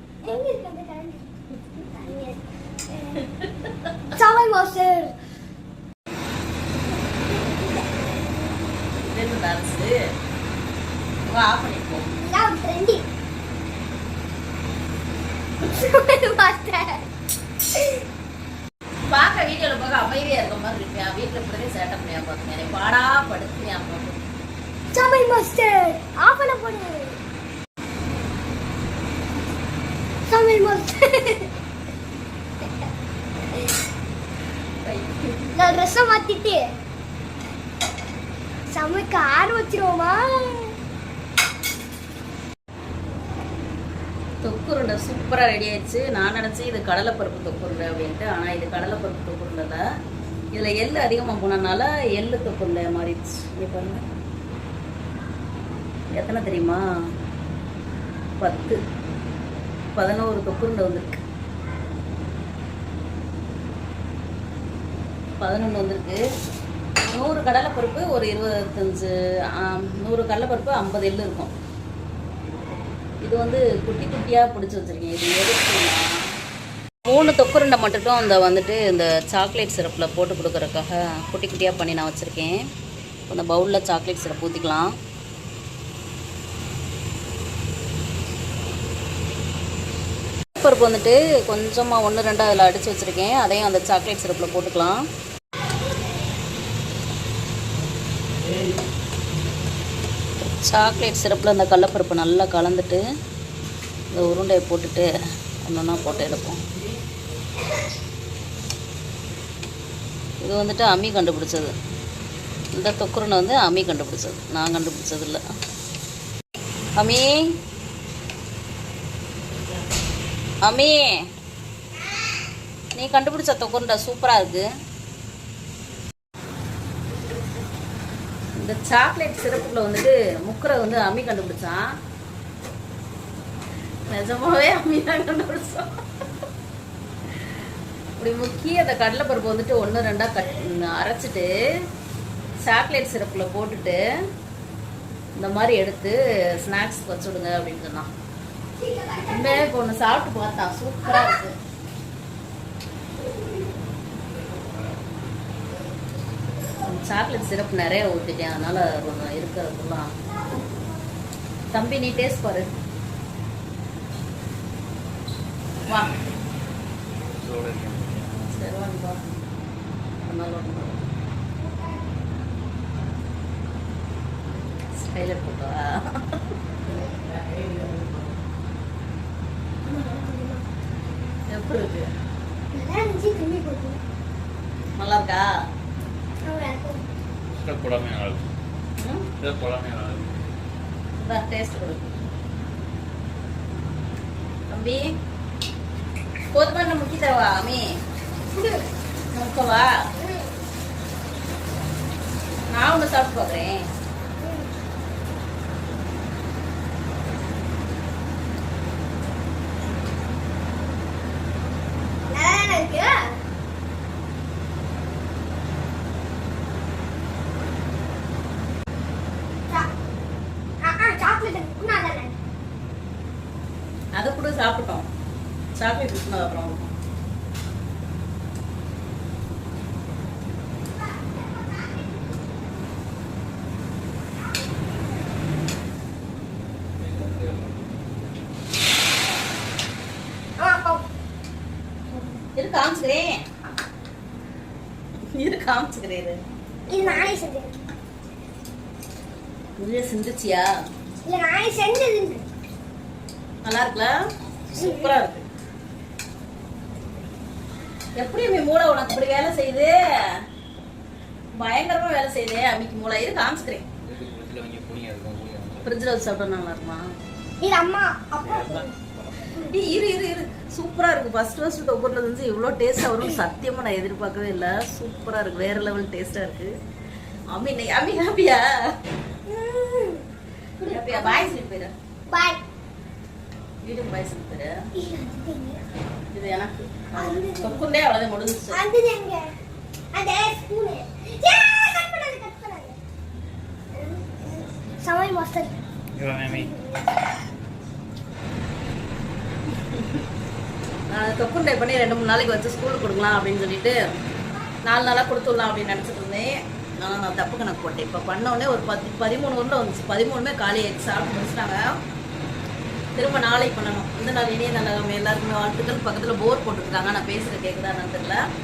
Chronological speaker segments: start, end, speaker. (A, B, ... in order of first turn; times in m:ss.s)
0:00.2-0:03.2 A
0:03.4-0:03.7 B
0:04.1-0:05.1 A
0:07.0-0:08.0 A
0:09.1-0:09.9 B
0:11.3-0:12.1 B
0:12.1-0:13.0 A
0:15.6-0:17.1 A
0:19.1-0:24.2 B
0:24.9-0:27.2 A
0:30.3-0:31.5 A
0:34.8-0:35.8 B
0:35.6-0:36.7 A
0:38.7-0:40.8 A
0:44.4-0:49.8 B
0:50.5-0:54.0 B
0:56.1-0:56.8 B
0:58.4-0:58.8 B
1:00.0-1:01.2 B
1:05.4-1:06.2 B
1:07.1-1:11.5 B
1:13.2-1:16.0 B
1:17.1-1:22.6 B
1:23.3-1:24.9 B
1:30.6-1:35.0 B
1:40.6-1:43.0 B
1:44.1-1:45.1 B
1:45.6-1:46.6 B
1:50.4-1:51.8 B
1:52.7-1:55.4 B
1:57.0-1:57.4 B
2:00.6-2:01.2 B
2:03.0-2:04.7 B
2:08.6-2:11.8 B
2:14.1-2:15.9 B
2:18.2-2:21.5 B
2:22.6-2:24.0 B
2:25.4-2:28.1 B
2:28.8-2:29.7 A
2:29.3-2:31.5 B
2:31.0-2:31.4 A
2:36.8-2:40.1 B
2:41.7-2:42.7 B
2:47.4-2:48.5 C
2:48.5-2:49.2 B
2:50.2-2:51.0 B
2:51.6-2:52.2 A
2:54.8-2:56.4 B
2:56.9-2:57.4 A
2:59.9-3:00.6 A
3:01.5-3:02.1 B
3:02.7-3:04.0 A
3:05.0-3:05.5 B
3:06.4-3:07.0 A
3:07.5-3:08.5 C
3:09.0-3:09.3 B
3:09.4-3:10.4 C
3:11.2-3:12.1 B
3:14.7-3:15.1 B
3:16.5-3:17.9 B
3:19.3-3:19.9 B
3:20.2-3:20.5 A
3:22.7-3:23.8 B
3:24.4-3:24.7 A
3:32.3-3:33.4 A
3:40.8-3:42.4 A
3:44.2-3:45.1 B
3:45.8-3:46.9 B
3:50.8-3:52.5 A
3:57.0-3:57.7 C
4:00.6-4:01.0 A
4:02.1-4:02.4 A
4:02.6-4:03.4 B
4:05.4-4:06.4 B
4:06.9-4:07.8 A
4:09.8-4:10.7 B
4:11.2-4:12.5 A
4:13.6-4:14.2 B
4:14.8-4:15.4 B
4:14.8-4:15.2 A
4:18.2-4:20.0 B
4:21.6-4:23.8 B
4:24.0-4:25.9 C
4:25.8-4:27.0 B
4:27.6-4:28.9 A
4:28.4-4:28.9 C
4:29.7-4:36.8 B
4:37.5-4:38.7 B
4:39.5-4:40.2 A
4:40.8-4:41.6 A
4:40.9-4:41.9 B
4:42.3-4:42.6 A
4:43.8-4:44.9 B
4:45.0-4:45.8 A
4:46.3-4:48.8 B
4:47.2-4:47.9 A
4:48.7-4:49.5 A
4:50.1-4:53.0 A
4:53.9-4:55.8 A
4:56.2-4:56.6 C
4:56.4-4:57.3 A
5:01.1-5:04.0 B
5:04.8-5:11.8 B
5:13.2-5:18.4 B